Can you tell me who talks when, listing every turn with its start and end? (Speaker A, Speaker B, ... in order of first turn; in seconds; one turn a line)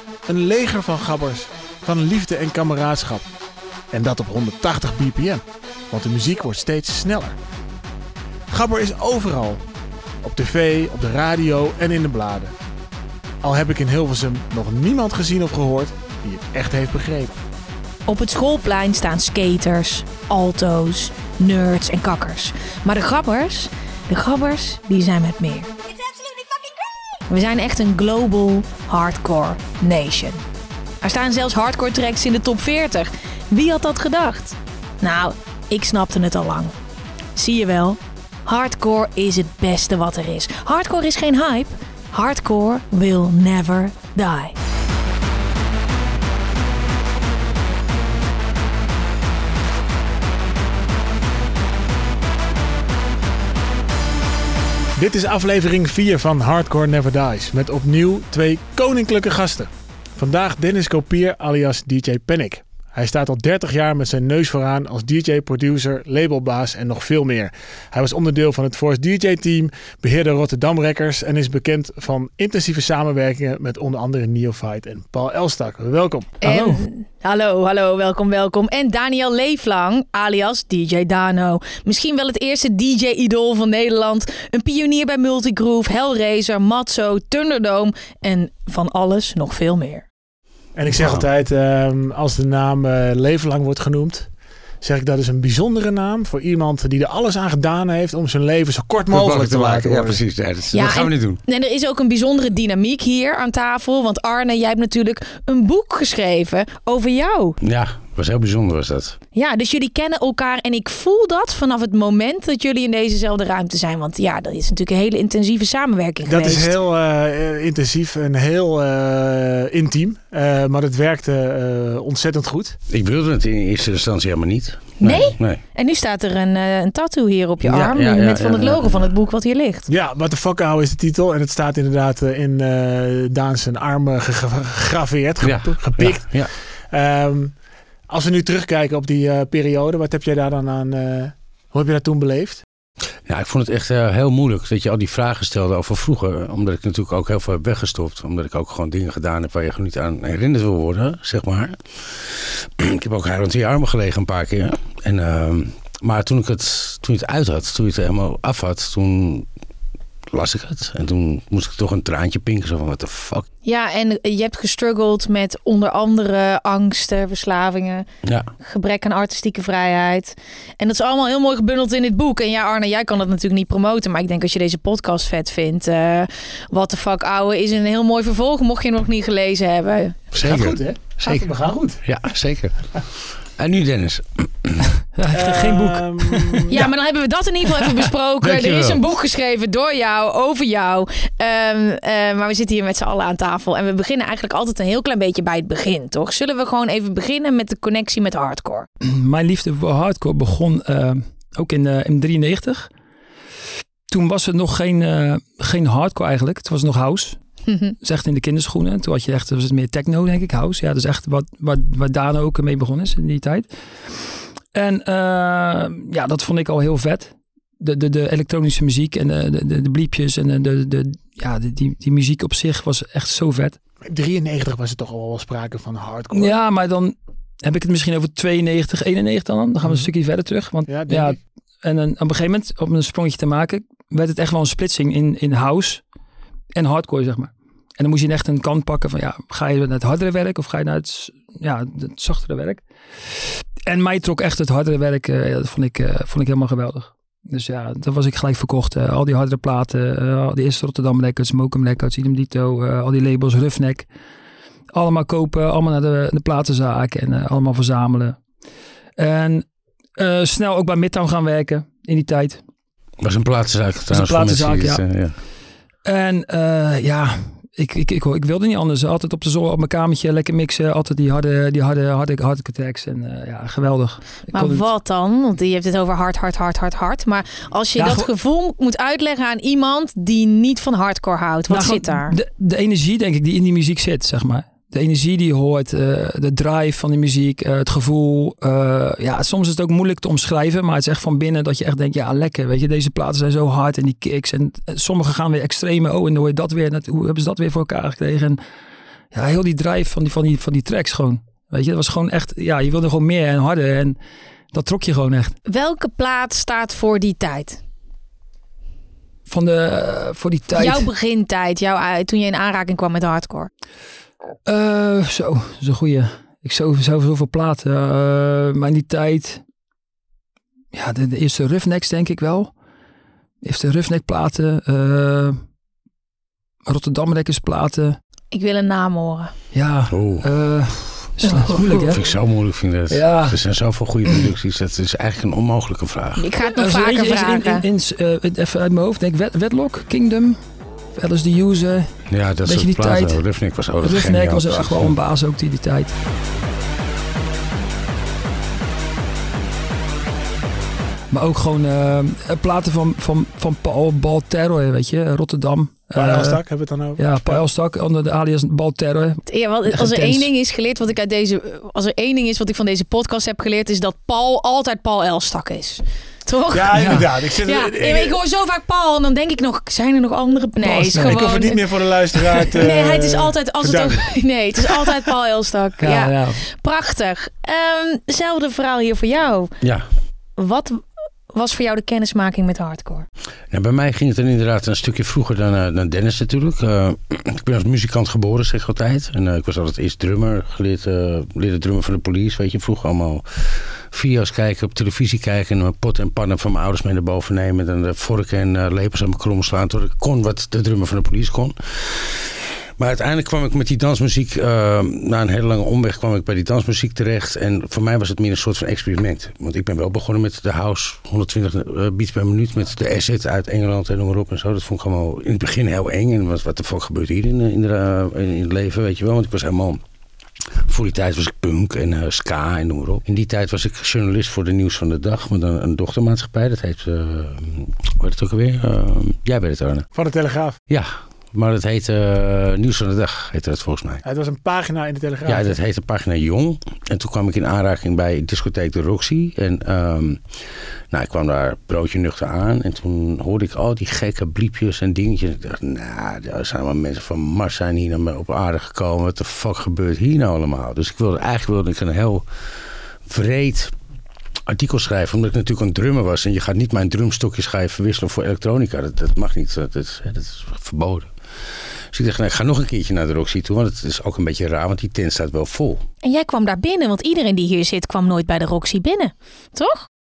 Speaker A: 0.2-3.2
Speaker A: 3.9-7.3
Speaker A: 8.5-9.6
Speaker A: 10.2-12.5
Speaker A: 13.4-17.4
Speaker B: 18.1-25.7
Speaker B: 27.3-30.4
Speaker B: 31.0-36.7
Speaker B: 37.4-44.6
Speaker A: 55.0-76.3
Speaker B: 76.4-90.0
Speaker C: 76.4-76.8
Speaker A: 90.8-94.3
Speaker D: 90.9-91.3
Speaker A: 94.8-100.2
Speaker D: 99.1-101.4
Speaker B: 100.7-107.6
Speaker D: 107.6-109.2
Speaker B: 109.3-116.7
Speaker A: 116.2-122.8
Speaker D: 122.9-125.6
Speaker B: 125.0-129.9
Speaker D: 127.6-129.1
Speaker A: 129.9-137.5
Speaker D: 135.4-136.5
Speaker A: 138.1-142.6
Speaker D: 143.2-159.5
Speaker D: 160.3-163.5
Speaker B: 163.6-168.1
Speaker D: 168.2-168.5
Speaker B: 168.6-180.2
Speaker D: 180.3-181.5
Speaker A: 180.4-182.0
Speaker D: 182.0-184.9
Speaker C: 185.1-186.9
Speaker A: 185.3-186.8
Speaker B: 186.7-198.9
Speaker D: 188.4-189.0
Speaker C: 199.0-202.9
Speaker C: 204.1-207.4
Speaker B: 207.7-207.9
Speaker C: 208.0-223.8
Speaker A: 224.1-226.6
Speaker C: 226.3-236.0
Speaker A: 230.9-231.4
Speaker C: 236.7-254.1
Speaker C: 254.9-258.4
Speaker C: 259.2-262.6
Speaker D: 263.2-265.4
Speaker C: 264.1-265.0
Speaker C: 266.0-274.9
Speaker B: 274.5-282.4
Speaker C: 278.0-278.3
Speaker C: 281.7-298.6
Speaker C: 299.3-304.2
Speaker C: 304.7-305.6
Speaker B: 305.7-307.8
Speaker C: 309.5-311.1
Speaker B: 310.7-313.7
Speaker C: 314.6-319.6
Speaker C: 320.9-322.7
Speaker C: 323.6-325.6
Speaker C: 326.9-328.2
Speaker B: 328.5-329.5
Speaker C: 329.7-332.2
Speaker D: 330.1-330.5
Speaker D: 331.9-336.5
Speaker C: 333.1-333.6
Speaker B: 336.4-337.8
Speaker C: 336.7-343.4
Speaker D: 342.3-345.1
Speaker C: 344.0-346.1
Speaker C: 351.3-356.6
Speaker A: 356.1-357.6
Speaker C: 357.2-360.5
Speaker B: 359.5-379.7
Speaker A: 366.7-368.4
Speaker C: 366.9-367.2
Speaker A: 370.9-374.3
Speaker C: 371.1-371.4
Speaker C: 376.0-376.6
Speaker D: 379.8-380.1
Speaker B: 380.6-383.3
Speaker D: 383.7-420.0
Speaker D: 420.8-430.1
Speaker A: 430.1-430.8
Speaker D: 430.9-434.2
Speaker A: 434.2-435.8
Speaker D: 435.4-440.4
Speaker D: 441.1-452.4
Speaker D: 453.2-453.9
Speaker D: 454.7-461.3
Speaker D: 462.1-466.0
Speaker B: 466.2-470.1